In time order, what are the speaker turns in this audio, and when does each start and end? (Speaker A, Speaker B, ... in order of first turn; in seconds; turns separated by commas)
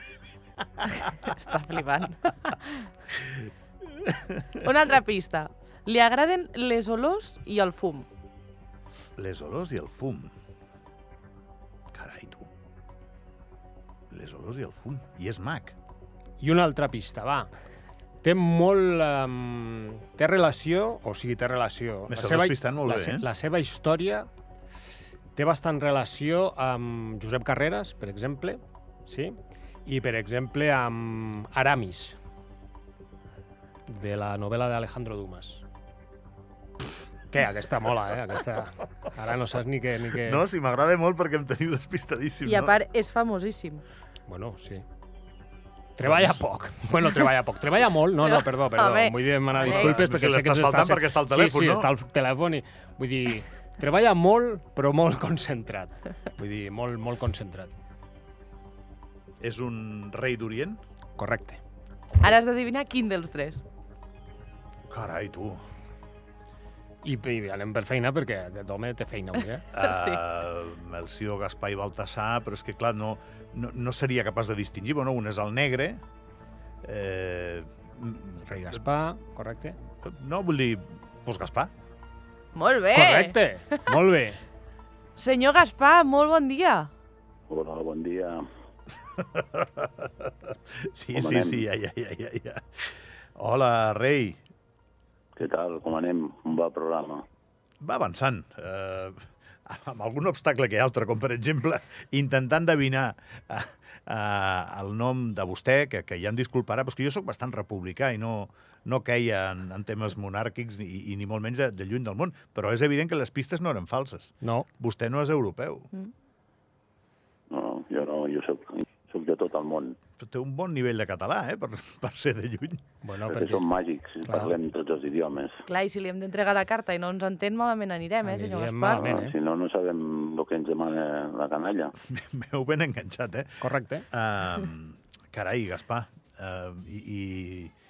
Speaker A: 1.2-2.9, Speaker A: 4.5-8.1, Speaker B: 9.2-10.3, Speaker B: 11.9-12.5, Speaker B: 14.1-15.8, Speaker C: 16.4-17.5, Speaker C: 18.2-24.3, Speaker B: 22.1-23.3, Speaker C: 25.4-32.2, Speaker C: 33.9-35.6, Speaker C: 37.3-40.4, Speaker B: 40.2-42.8, Speaker A: 42.5-43.8, Speaker C: 44.3-44.9, Speaker C: 46.0-57.7, Speaker B: 46.0-46.4, Speaker A: 48.2-50.0, Speaker B: 49.6-51.9, Speaker B: 59.4-60.8, Speaker C: 61.2-61.6, Speaker A: 62.2-63.6, Speaker B: 64.9-65.6, Speaker C: 67.0-69.7, Speaker B: 69.7-76.0, Speaker A: 69.8-70.2, Speaker B: 76.8-78.8, Speaker C: 78.5-79.8, Speaker B: 80.0-81.7, Speaker A: 82.5-84.0, Speaker C: 82.9-84.4, Speaker A: 85.2-86.9, Speaker D: 87.5-88.4, Speaker B: 89.2-94.4, Speaker D: 91.1-91.7, Speaker D: 95.4-97.2, Speaker B: 97.8-115.9, Speaker C: 114.4-114.7, Speaker D: 117.5-120.0, Speaker B: 120.2-122.8, Speaker C: 123.0-123.7, Speaker D: 123.3-125.6, Speaker C: 124.2-124.5, Speaker A: 125.7-129.2, Speaker C: 128.2-129.3, Speaker D: 128.9-131.9, Speaker B: 132.1-137.7, Speaker C: 133.6-134.1